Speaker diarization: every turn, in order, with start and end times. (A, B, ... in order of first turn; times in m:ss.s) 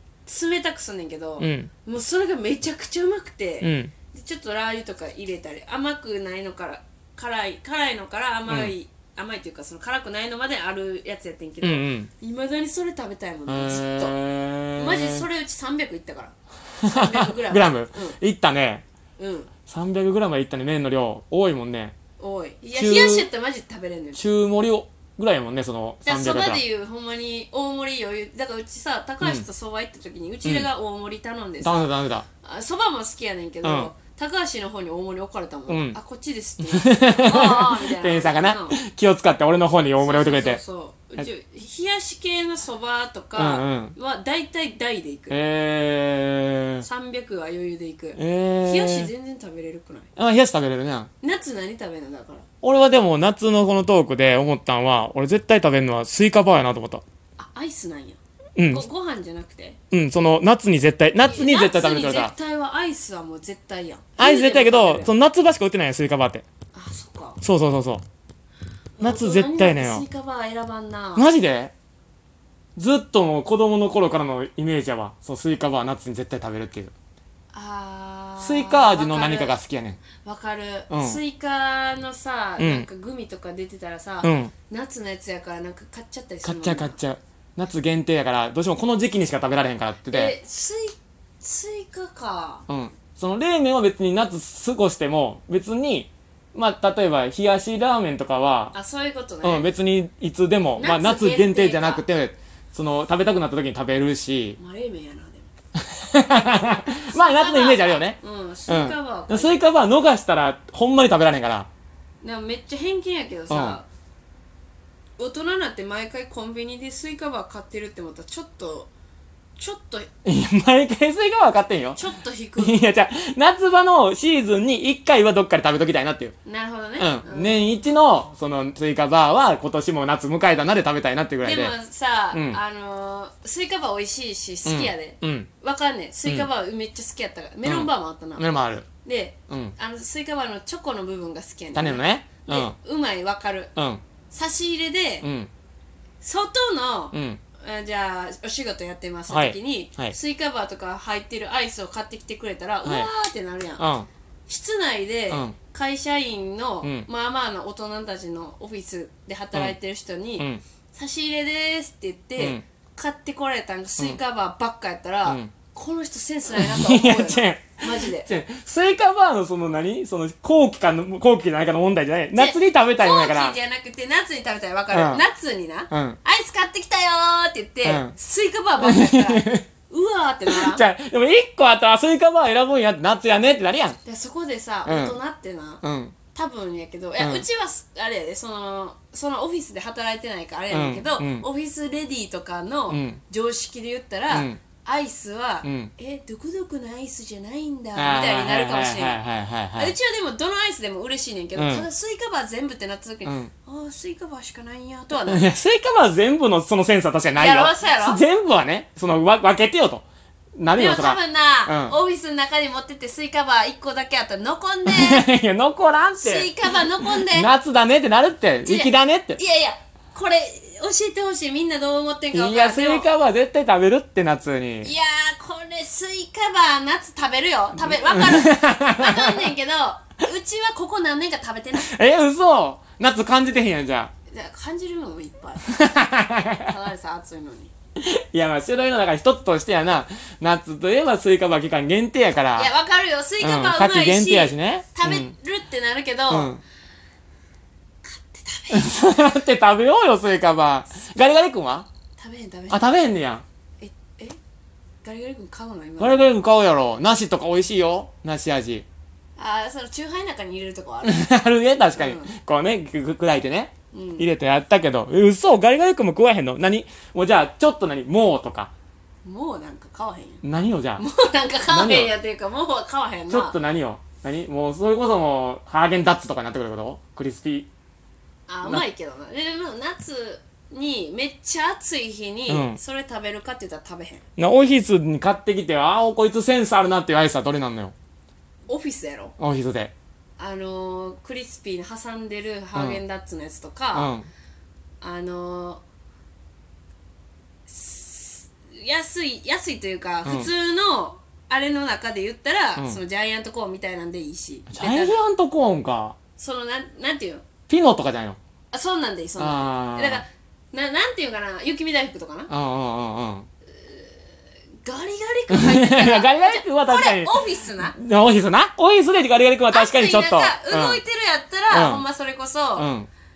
0:00.2-0:14.2 A
0:01.4-0:01.7 B
0:03.6-0:03.9 B
0:08.5-0:08.7 B
0:11.6-0:12.1 B
0:13.5-0:15.2 B
0:14.8-0:18.2 A
0:16.8-0:18.8 B
0:19.2-0:19.5 A
0:19.7-0:21.9 B
0:22.2-0:24.2 A
0:22.7-0:23.3 B
0:24.1-0:26.6 B
0:26.0-0:31.9 A
0:31.6-0:32.2 B
0:32.4-0:38.8 A
0:33.6-0:33.9 B
0:35.7-0:36.0 B
0:36.6-0:40.6 B
0:40.0-0:45.4 A
0:43.4-0:43.9 B
0:45.3-0:46.9 B
0:46.8-0:50.1 A
0:48.1-0:49.1 B
0:50.2-0:51.1 B
0:51.2-0:52.4 A
0:52.6-0:57.0 B
0:57.4-0:59.8 A
0:58.6-0:58.8 B
0:59.9-1:02.3 B
1:01.3-1:05.1 A
1:04.2-1:06.4 B
1:06.7-1:07.4 A
1:07.4-1:08.0 B
1:09.0-1:11.3 A
1:09.0-1:10.0 B
1:11.2-1:11.7 B
1:12.8-1:16.9 B
1:17.5-1:19.6 A
1:18.4-1:20.0 B
1:20.2-1:27.0 A
1:20.9-1:21.2 B
1:22.6-1:22.9 B
1:24.2-1:24.5 B
1:26.4-1:30.4 B
1:30.1-1:32.6 A
1:32.7-1:38.7 B
1:38.7-1:39.7 A
1:39.4-1:44.6 B
1:40.8-1:42.1 A
1:44.6-1:45.5 A
1:45.8-1:48.2 B
1:46.4-1:49.6 A
1:48.7-1:51.7 B
1:52.2-1:53.9 A
1:53.5-1:53.8 B
1:55.2-1:58.9 A
1:59.6-2:00.1 A
2:00.2-2:02.0 B
2:01.9-2:02.8 A
2:02.6-2:06.3 B
2:06.4-2:07.8 A
2:07.0-2:11.7 B
2:11.4-2:18.5 A
2:12.3-2:12.6 B
2:14.6-2:15.5 B
2:17.6-2:18.9 B
2:19.0-2:23.7 A
2:19.5-2:19.8 B
2:21.8-2:22.8 B
2:23.8-2:24.0 B
2:24.3-2:25.2 A
2:25.2-2:25.5 B
2:26.2-2:33.9 A
2:27.1-2:27.4 B
2:29.3-2:30.2 B
2:32.8-2:33.1 B
2:33.8-2:34.1 B
2:34.5-2:48.3 A
2:35.3-2:35.6 B
2:42.4-2:42.6 B
2:45.2-2:45.5 B
2:46.5-2:53.6 B
2:52.3-3:00.8 A
2:54.9-2:55.2 B
2:55.9-2:56.2 B
2:57.8-2:58.1 B
2:58.8-2:59.6 B
3:00.5-3:04.0 B
3:04.0-3:05.8 A
3:04.9-3:05.1 B
3:05.8-3:06.2 B
3:06.3-3:19.2 A
3:07.2-3:07.4 B
3:10.7-3:11.4 B
3:12.9-3:13.2 B
3:14.3-3:14.6 B
3:15.6-3:15.9 B
3:18.0-3:19.9 B
3:19.8-3:25.5 A
3:21.6-3:21.8 B
3:23.2-3:23.5 B
3:25.3-3:30.0 B
3:27.4-3:28.2 A
3:30.6-3:31.9 B
3:30.7-3:35.2 A
3:34.9-3:39.4 B
3:36.2-3:37.5 A
3:38.6-3:43.1 A
3:42.3-3:44.9 B
3:44.8-3:51.9 A
3:47.8-3:49.5 B
3:51.8-3:54.1 B
3:54.3-3:55.9 A
3:55.7-3:56.7 B
3:56.6-3:57.7 A
3:58.0-4:02.7 B
4:02.6-4:06.5 A
4:03.4-4:05.3 B
4:06.3-4:06.6 B
4:08.0-4:09.0 A
4:08.7-4:11.9 B
4:12.2-4:12.9 A
4:12.7-4:13.4 B
4:13.8-4:14.4 A
4:15.0-4:16.2 A
4:16.0-4:18.8 B
4:19.4-4:21.3 A
4:21.0-4:28.7 B
4:22.0-4:22.3 A
4:23.9-4:24.3 A
4:29.2-4:30.4 A
4:30.4-4:31.0 B
4:31.0-4:33.6 A
4:31.7-4:32.1 B
4:33.3-4:37.7 B
4:38.5-4:44.2 A
4:42.5-4:42.8 B
4:44.4-4:47.9 B
4:48.7-4:49.3 A
4:49.4-4:49.9 B
4:50.4-4:54.1 A
4:52.7-4:53.0 B
4:53.9-4:54.3 B
4:55.0-4:55.8 A
4:57.7-5:05.2 A
5:00.2-5:00.5 B
5:04.7-5:06.2 B
5:06.4-5:07.5 A
5:07.7-5:08.4 B
5:08.7-5:12.5 A
5:09.4-5:10.2 B
5:12.5-5:13.5 B
5:13.7-5:18.0 A
5:15.5-5:21.0 B
5:19.7-5:22.9 A
5:21.7-5:22.0 B
5:22.8-5:23.1 B